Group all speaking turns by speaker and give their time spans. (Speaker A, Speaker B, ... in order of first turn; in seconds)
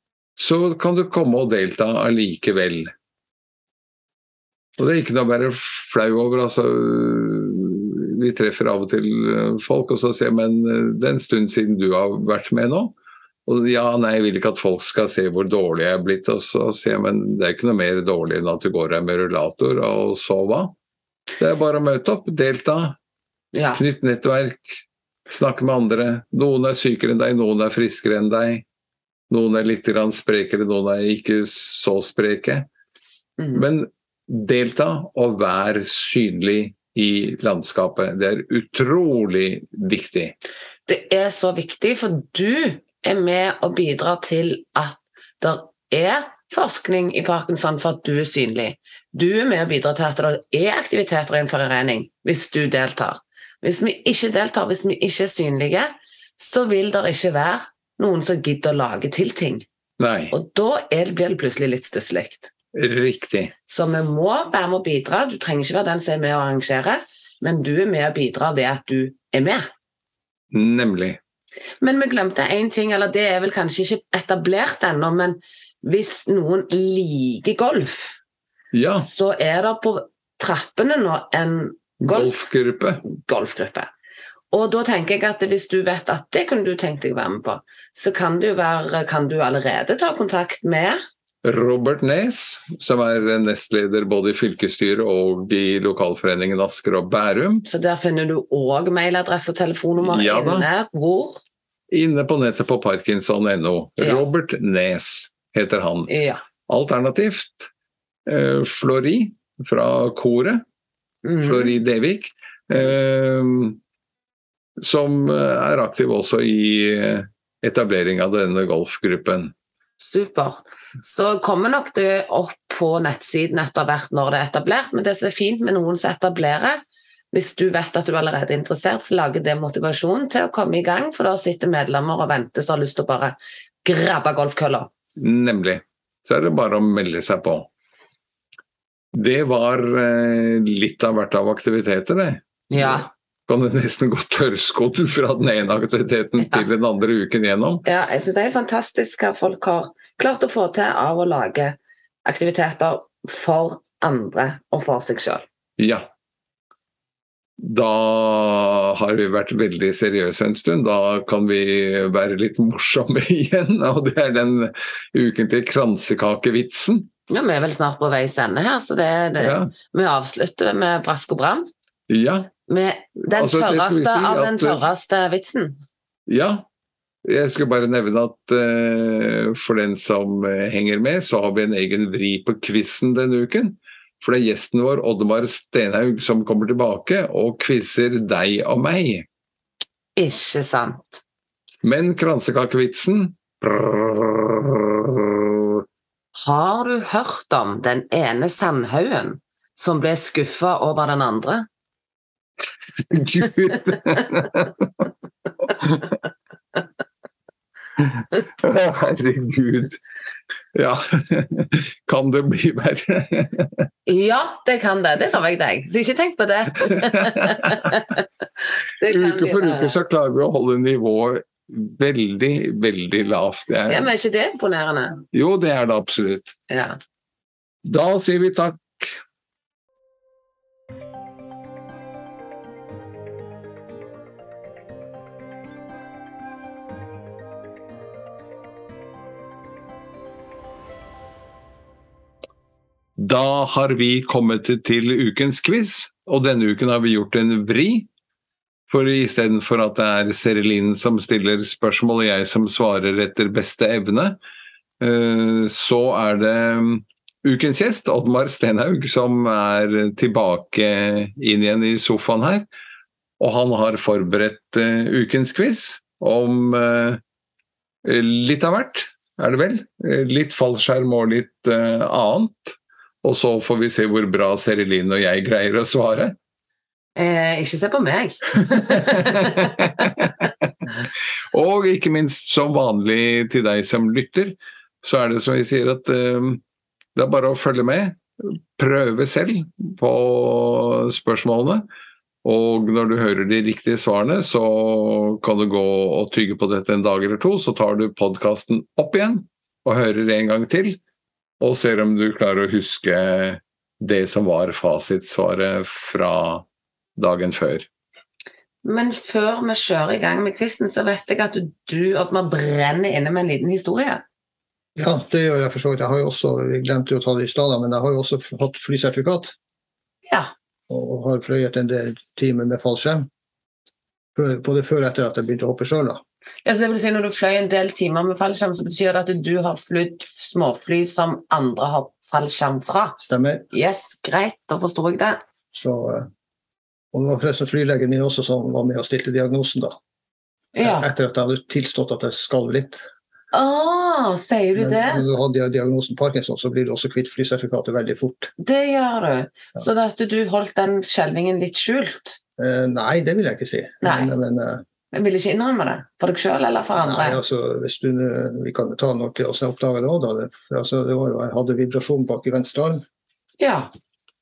Speaker A: 0.4-2.9, 4.8-12.9, 13.5-20.7, 21.4-23.0, 23.8-28.6, 29.3-32.7, 33.5-40.4, 60.0-60.3, 62.7-63.5, 70.5-71.2, 78.7-79.1, 82.0-83.0, 91.4-97.7, 100.0-100.7, 101.9-106.1, 106.7-107.7, 108.3-110.6, 111.4-113.8, 114.8-119.5, 135.2-137.7, 139.1-147.8, 155.8-156.1, 157.6-167.1, 169.4-169.7, 172.1-172.5, 173.3-174.8, 176.3-176.7, 177.2-189.3, 191.8-195.8, 203.1-204.9, 208.6-210.0, 210.7-213.9, 217.0-217.9, 219.0-224.1, 225.3-226.6, 227.8-229.2, 243.2-248.1, 248.9-254.4, 255.0-262.7, 263.4-267.2, 268.0-276.4, 278.7-280.7, 281.5-286.6, 287.1-291.9, 292.4-301.0, 301.6-306.6, 307.2-307.9
Speaker B: 23.5-23.8, 33.4-33.6, 40.9-59.6, 60.3-62.5, 63.7-69.7, 71.8-78.2, 78.9-82.4, 83.0-83.9, 84.5-91.0, 97.7-101.4, 104.0-104.2, 106.1-106.4, 111.2-111.8, 120.0-126.8, 127.3-134.9, 142.7-143.1, 146.4-146.7, 147.8-155.4, 167.3-171.7, 172.7-175.8, 190.2-191.2, 196.4-201.7, 214.1-218.2, 219.0-220.0, 223.9-225.3, 226.7-227.0, 277.2-279.8, 308.8-314.2, 320.3-320.5, 326.6-333.2, 333.7-335.4, 340.8-341.1, 343.5-345.3, 348.6-352.4, 354.0-354.3, 355.1-357.4, 363.6-363.9
Speaker C: 315.0-319.6, 320.9-323.3, 324.4-326.2, 333.2-333.7, 335.7-336.3, 337.1-340.0, 340.8-343.0, 344.8-348.5, 352.6-354.8, 357.0-363.0